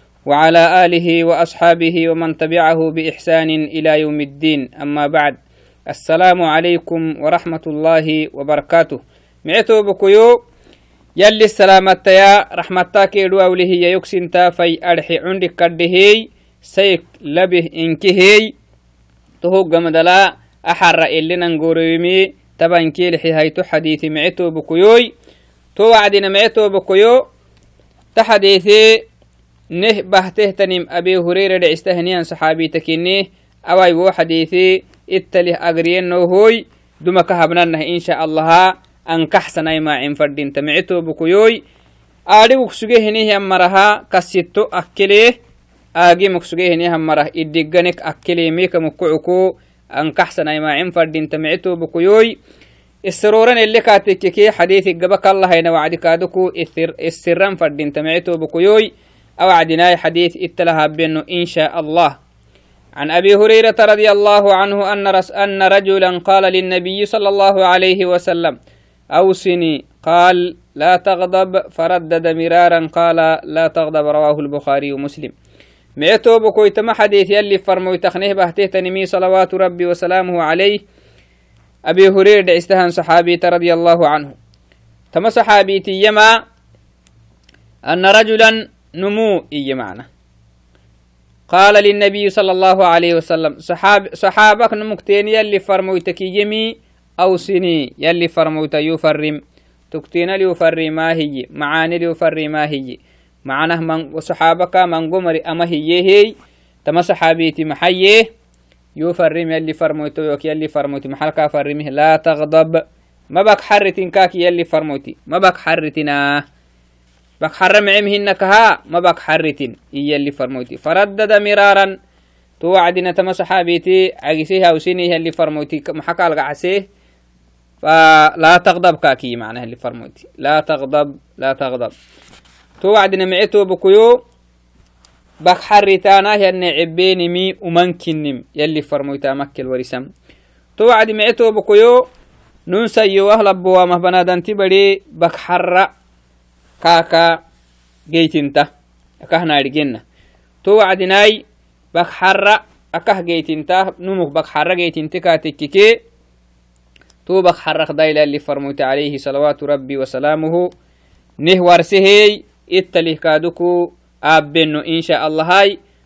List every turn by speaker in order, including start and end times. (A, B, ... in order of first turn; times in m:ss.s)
0:00.3-0:05.4 A
0:05.9-0:10.4 A
0:11.2-0:18.5 A
0:19.4-0:25.1 A
0:25.8-0:27.2 A
0:28.1-0:28.9 A
0:29.7-0:41.6 A
0:42.3-0:45.3 A
0:46.0-0:52.3 A
0:53.1-0:58.9 A
0:59.4-1:02.2 A
1:03.0-1:08.6 A
1:09.1-1:15.3 A
1:16.0-1:20.8 A
1:21.9-1:24.4 A
1:25.1-1:26.3 A
1:27.9-1:30.1 A
1:31.5-1:39.4 A
1:39.9-1:46.3 A
1:46.8-1:48.2 A
1:49.0-1:56.4 A
1:57.4-2:01.9 A
2:02.6-2:06.8 A
2:07.8-2:11.9 A
2:12.8-2:14.2 A
2:15.4-2:20.1 A
2:20.8-2:22.0 A
2:22.7-2:25.9 A
2:26.8-2:27.3 A
2:28.1-2:28.7 A
2:29.2-2:30.0 A
2:30.6-2:31.4 A
2:31.9-2:35.9 A
2:37.2-2:40.7 A
2:41.4-2:45.8 A